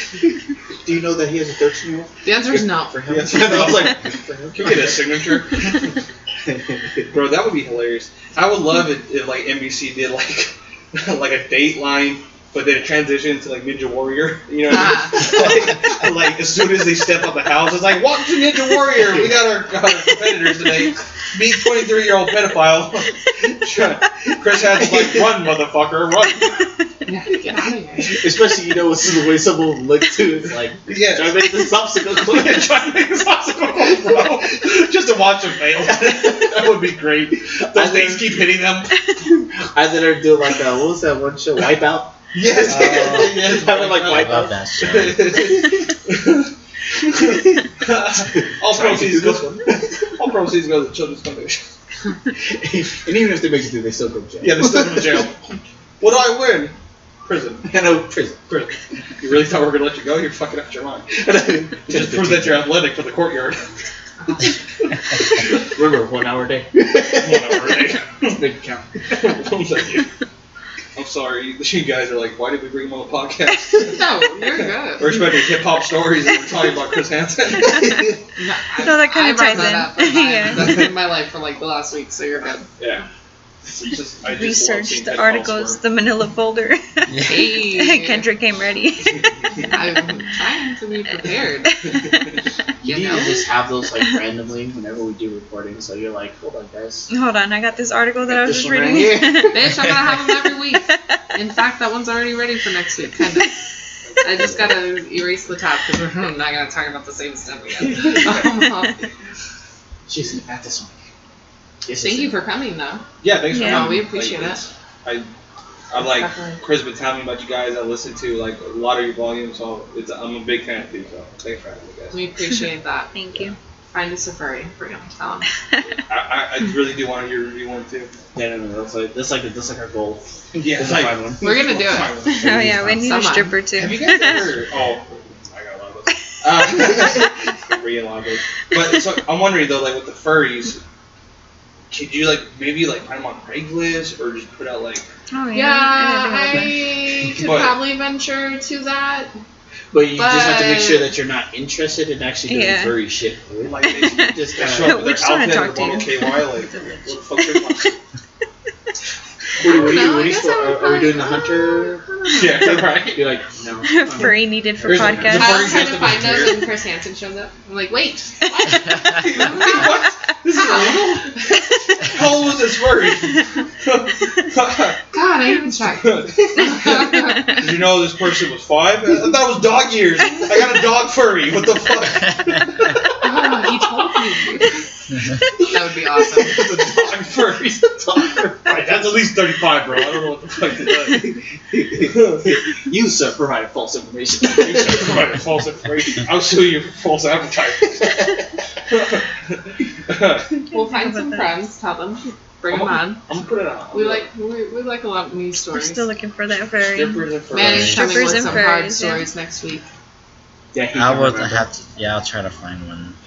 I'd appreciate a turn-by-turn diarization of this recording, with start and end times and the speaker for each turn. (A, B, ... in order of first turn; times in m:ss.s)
0:00.8-0:05.0 A
0:02.2-0:03.1 B
0:03.1-0:06.0 C
0:06.4-0:07.1 A
0:07.1-0:26.7 C
0:14.7-0:15.2 B
0:18.9-0:19.4 A
0:27.0-0:28.2 B
0:28.0-0:32.9 A
0:30.9-0:39.1 C
0:33.8-0:34.6 A
0:35.8-0:36.8 A
0:37.7-0:38.4 A
0:39.6-0:44.6 A
0:42.3-0:46.5 C
0:42.7-0:43.4 D
0:44.0-0:45.6 D
0:47.1-0:51.7 C
0:48.2-0:50.1 A
0:52.4-0:55.3 A
0:54.4-0:55.4 C
0:56.0-0:57.7 C
0:57.7-0:58.7 A
0:59.2-1:01.2 C
1:01.2-1:02.7 A
1:01.9-1:03.7 C
1:05.6-1:09.4 A
1:07.1-1:08.4 C
1:09.1-1:10.1 C
1:11.0-1:14.0 C
1:13.9-1:15.2 B
1:15.0-1:18.2 C
1:18.4-1:22.8 B
1:18.8-1:20.9 E
1:22.8-1:23.1 C
1:23.7-1:25.8 C
1:24.4-1:29.2 E
1:27.1-1:27.5 D
1:27.3-1:28.3 B
1:29.7-1:31.9 B
1:32.8-1:33.5 B
1:32.8-1:37.1 A
1:37.1-1:40.2 E
1:38.3-1:39.6 A
1:39.5-1:43.6 B
1:44.1-1:44.6 C
1:44.2-1:49.0 B
1:48.0-1:48.6 C
1:50.1-1:51.0 A
1:51.8-1:52.4 A
1:52.0-1:53.0 B
1:53.2-1:55.3 C
1:53.5-1:54.0 E
1:53.6-1:54.6 B
1:55.9-2:02.2 C
1:56.0-1:56.6 B
2:02.1-2:03.1 B
2:03.1-2:03.6 E
2:03.9-2:05.5 B
2:06.1-2:08.1 C
2:08.3-2:11.8 A
2:10.6-2:20.8 C
2:11.4-2:12.2 B
2:12.3-2:14.5 E
2:13.0-2:13.6 B
2:21.9-2:25.1 C
2:25.3-2:26.9 E
2:25.5-2:29.3 B
2:27.3-2:27.8 C
2:29.9-2:35.1 A
2:30.2-2:31.1 B
2:32.5-2:33.0 E
2:33.6-2:38.0 C
2:34.0-2:37.6 E
2:39.6-2:45.4 A
2:39.6-2:40.1 C
2:39.6-2:42.7 B
2:42.3-2:43.3 C
2:43.8-2:45.9 E
2:44.8-2:46.7 C
2:45.3-2:50.0 B
2:48.5-2:51.4 C
2:50.6-2:51.6 B
2:52.0-2:55.0 C
2:55.1-2:57.6 B
2:56.0-3:04.3 C
3:03.2-3:04.8 B
3:05.6-3:11.4 C
3:05.6-3:06.6 B
3:11.2-3:15.4 A
3:12.1-3:12.5 C
3:14.4-3:20.6 C
3:20.7-3:21.6 E
3:20.7-3:23.2 B
3:22.7-3:24.3 C
3:23.9-3:26.0 B
3:25.7-3:29.3 E
3:26.9-3:28.6 C
3:27.5-3:29.8 B
3:30.7-3:31.7 A
3:30.9-3:33.2 D